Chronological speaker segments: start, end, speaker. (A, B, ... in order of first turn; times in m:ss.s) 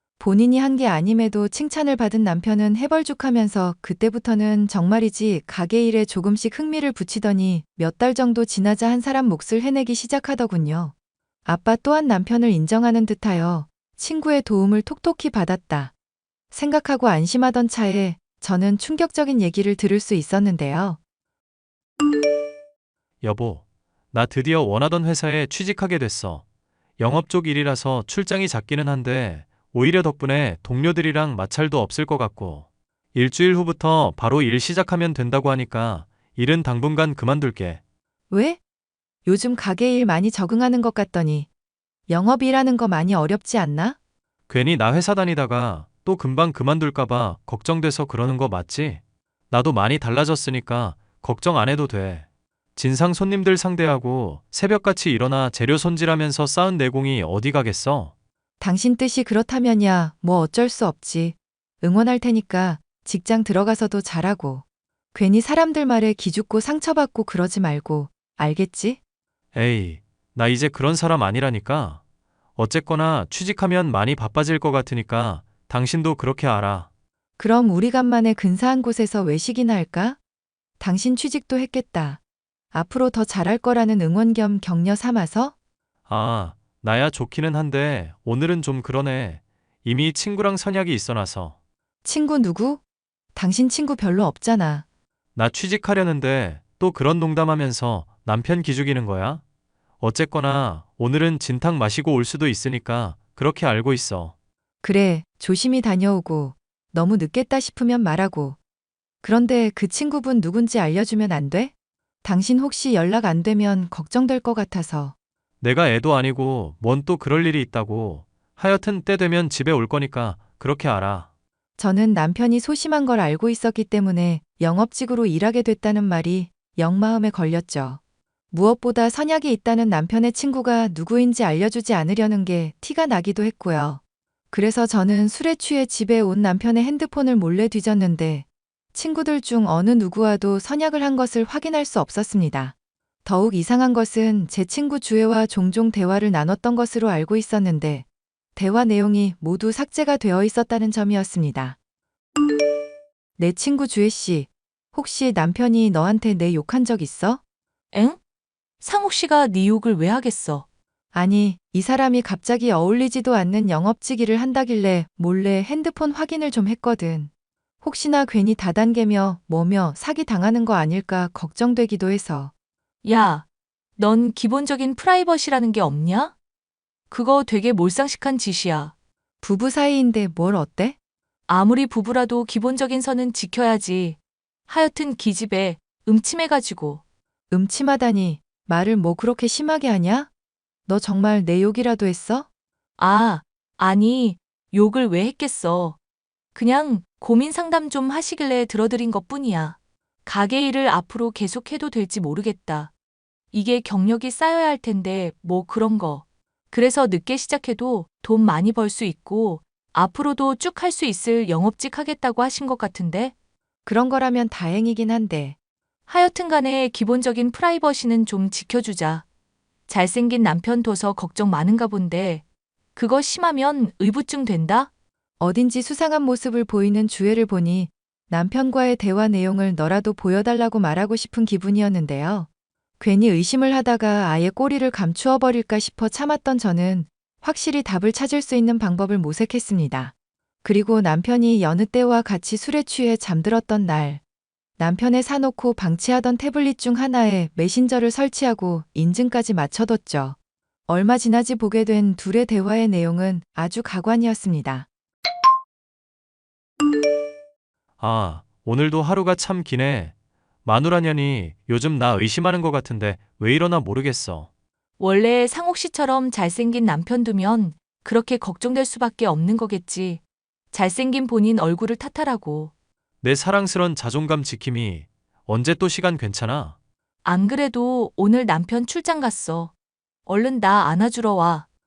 0:00.2-0:10.9 A
0:11.5-0:15.9 A
0:16.5-0:21.0 A
0:23.2-0:26.4 B
0:27.0-0:37.8 B
0:38.3-0:38.6 A
0:39.3-0:41.5 A
0:42.1-0:44.0 A
0:44.5-0:52.2 B
0:52.8-0:58.1 B
0:58.6-1:04.6 A
1:05.1-1:09.0 A
1:09.6-1:12.0 B
1:12.6-1:16.9 B
1:17.4-1:20.2 A
1:20.8-1:22.2 A
1:22.7-1:25.5 A
1:26.1-1:31.5 B
1:32.0-1:32.8 A
1:33.4-1:34.8 A
1:35.4-1:39.4 B
1:40.0-1:44.3 B
1:44.8-1:48.6 A
1:49.2-1:51.7 A
1:52.2-1:55.1 A
1:55.6-2:01.3 B
2:01.8-2:08.0 A
2:08.5-2:14.0 A
2:14.5-2:22.7 A
2:23.2-2:31.8 A
2:33.4-2:37.4 A
2:37.9-2:38.2 C
2:38.8-2:40.6 C
2:41.1-2:47.3 A
2:47.8-2:52.5 A
2:53.0-2:53.5 C
2:54.0-2:56.3 C
2:57.1-2:58.9 C
2:59.4-3:01.0 A
3:01.5-3:07.0 C
3:07.5-3:10.3 A
3:10.9-3:12.5 A
3:13.0-3:16.0 C
3:16.5-3:22.9 C
3:23.5-3:33.3 C
3:33.8-3:35.6 A
3:36.1-3:39.2 C
3:39.9-3:42.4 C
3:43.0-3:44.9 C
3:45.4-3:52.5 A
3:53.0-4:00.1 A
4:00.6-4:04.2 A
4:04.8-4:10.4 A
4:10.9-4:14.9 A
4:18.0-4:20.1 B
4:20.6-4:24.5 B
4:25.0-4:30.2 C
4:30.7-4:32.7 C
4:33.2-4:36.8 B
4:37.2-4:39.7 C
4:40.3-4:41.6 C